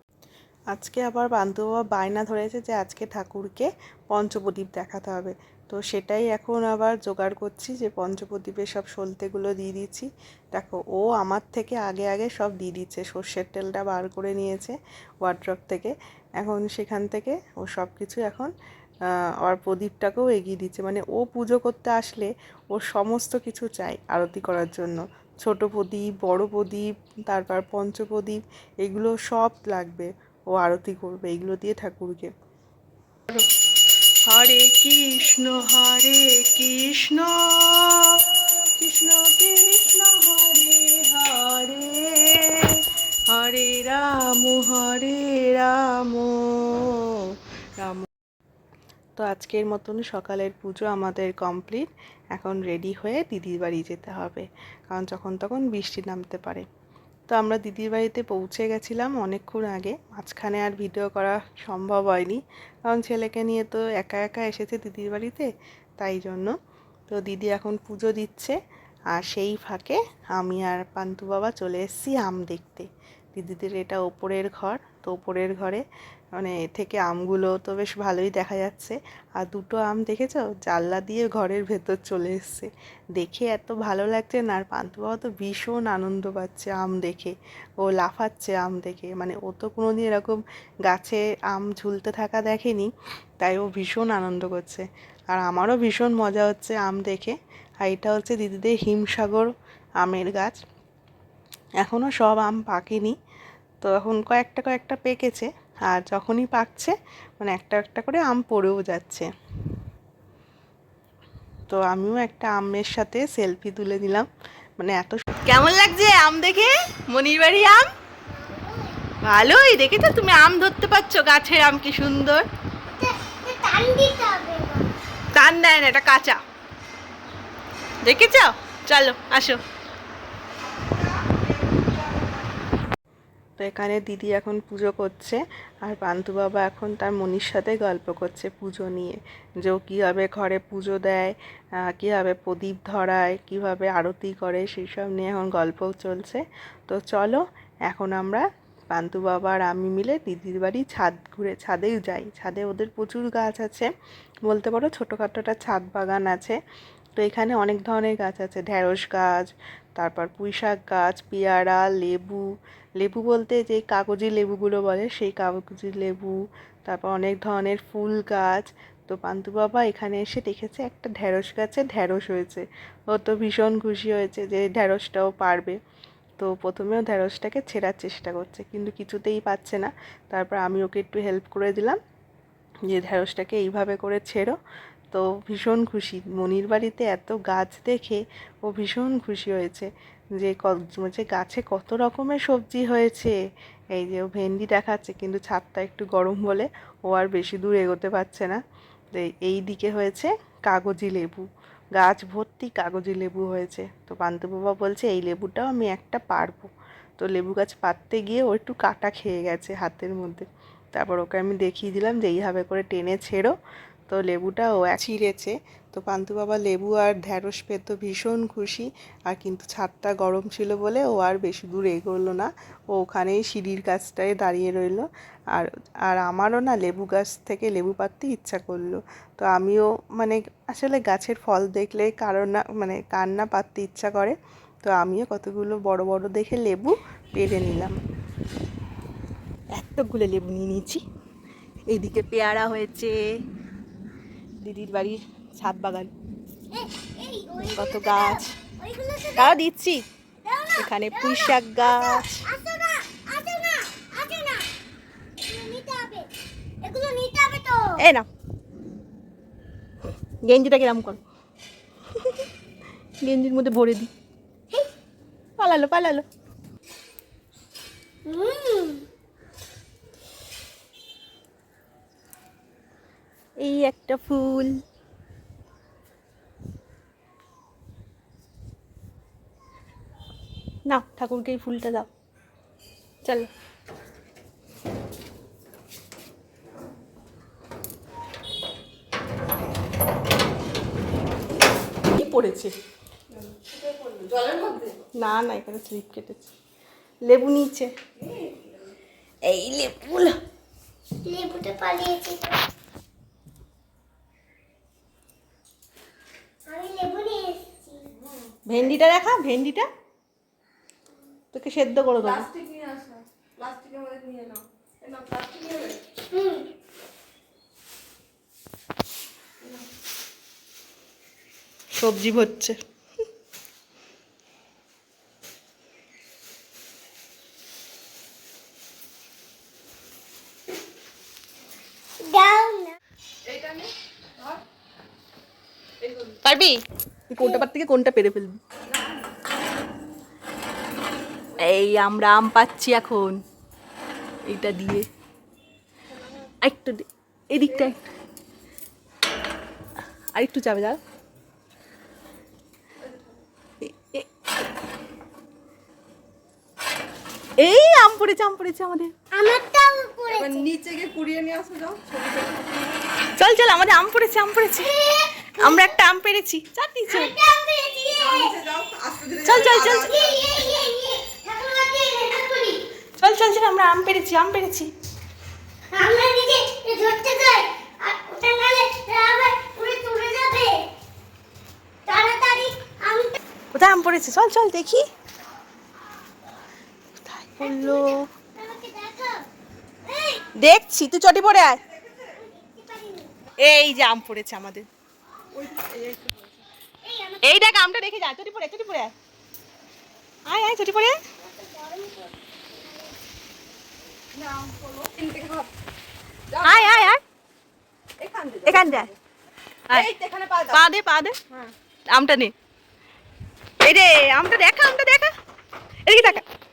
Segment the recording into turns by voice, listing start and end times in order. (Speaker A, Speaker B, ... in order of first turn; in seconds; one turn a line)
Speaker A: 0.7-18.5
Speaker A: 19.4-32.3
Speaker A: 34.3-38.2
Speaker A: 38.8-47.2
Speaker A: 47.8-48.1
Speaker A: 49.2-56.6
Speaker A: 57.3-65.5
Speaker A: 66.0-66.5
Speaker A: 67.1-68.6
Speaker A: 69.1-75.8
Speaker A: 76.4-99.5
Speaker A: 100.0-100.6
Speaker A: 101.8-103.2
Speaker A: 103.8-109.3
Speaker A: 111.7-114.3
Speaker A: 114.8-117.9
Speaker B: 118.3-119.0
Speaker A: 119.2-122.5
Speaker B: 122.9-124.9
Speaker A: 125.3-126.4
Speaker A: 128.0-129.6
Speaker C: 130.6-132.5
Speaker A: 133.6-141.3
Speaker A: 141.9-153.9
Speaker A: 154.5-156.6
Speaker A: 157.2-162.4
Speaker A: 163.0-175.8
Speaker A: 176.4-182.0
Speaker A: 182.9-184.6
Speaker A: 185.1-193.3
Speaker A: 193.9-198.6
Speaker A: 199.2-201.4
Speaker A: 202.0-213.5
Speaker A: 214.1-238.0
Speaker A: 239.8-241.0
Speaker A: 241.9-243.2
Speaker A: 244.6-246.1
Speaker B: 246.7-249.6
Speaker A: 247.6-248.5
Speaker A: 249.4-250.0
Speaker B: 250.4-254.7
Speaker A: 250.8-252.5
Speaker B: 255.4-256.3
Speaker B: 256.8-258.0
Speaker A: 258.0-258.3
Speaker A: 260.4-261.2
Speaker A: 263.2-264.1
Speaker A: 265.6-266.2
Speaker B: 268.3-269.1
Speaker A: 273.6-274.7
Speaker A: 280.9-282.1
Speaker A: 292.1-292.7
Speaker C: 293.3-295.0
Speaker A: 295.2-296.4
Speaker A: 297.3-297.9
Speaker C: 298.2-298.8
Speaker A: 299.4-300.4
Speaker B: 301.2-302.6
Speaker B: 306.7-308.1
Speaker C: 308.2-308.5
Speaker A: 308.7-309.9
Speaker A: 311.5-312.5
Speaker C: 312.2-316.0
Speaker B: 316.3-316.7
Speaker A: 321.9-322.8
Speaker B: 332.2-333.0
Speaker C: 333.5-334.6
Speaker C: 336.0-336.4
Speaker A: 336.4-336.8
Speaker A: 337.3-338.5
Speaker C: 338.9-339.3
Speaker A: 341.6-343.4
Speaker A: 344.5-345.0
Speaker A: 346.6-348.0
Speaker A: 350.4-351.0
Speaker A: 353.9-354.2
Speaker A: 357.6-359.1
Speaker B: 359.3-360.7
Speaker C: 360.3-363.0
Speaker A: 363.4-364.9
Speaker B: 364.8-366.0
Speaker A: 365.6-367.3
Speaker B: 367.1-368.6
Speaker C: 368.1-370.7
Speaker A: 369.4-370.1
Speaker B: 369.8-372.8
Speaker A: 373.2-374.9
Speaker B: 375.9-380.8
Speaker B: 382.1-383.4
Speaker A: 383.8-385.1
Speaker A: 387.2-388.2
Speaker B: 387.6-389.4
Speaker B: 390.1-390.5
Speaker A: 390.6-391.8
Speaker B: 392.2-393.4
Speaker A: 393.6-394.9
Speaker C: 395.5-396.6
Speaker B: 397.0-397.7
Speaker A: 397.4-399.1
Speaker A: 400.5-401.2
Speaker B: 401.4-403.1
Speaker C: 404.3-405.7
Speaker C: 406.5-407.1
Speaker A: 406.6-407.2
Speaker C: 408.2-409.1
Speaker A: 408.7-409.1
Speaker C: 409.9-410.8
Speaker A: 410.7-411.4
Speaker A: 412.1-412.5
Speaker A: 413.8-415.3
Speaker A: 416.1-416.4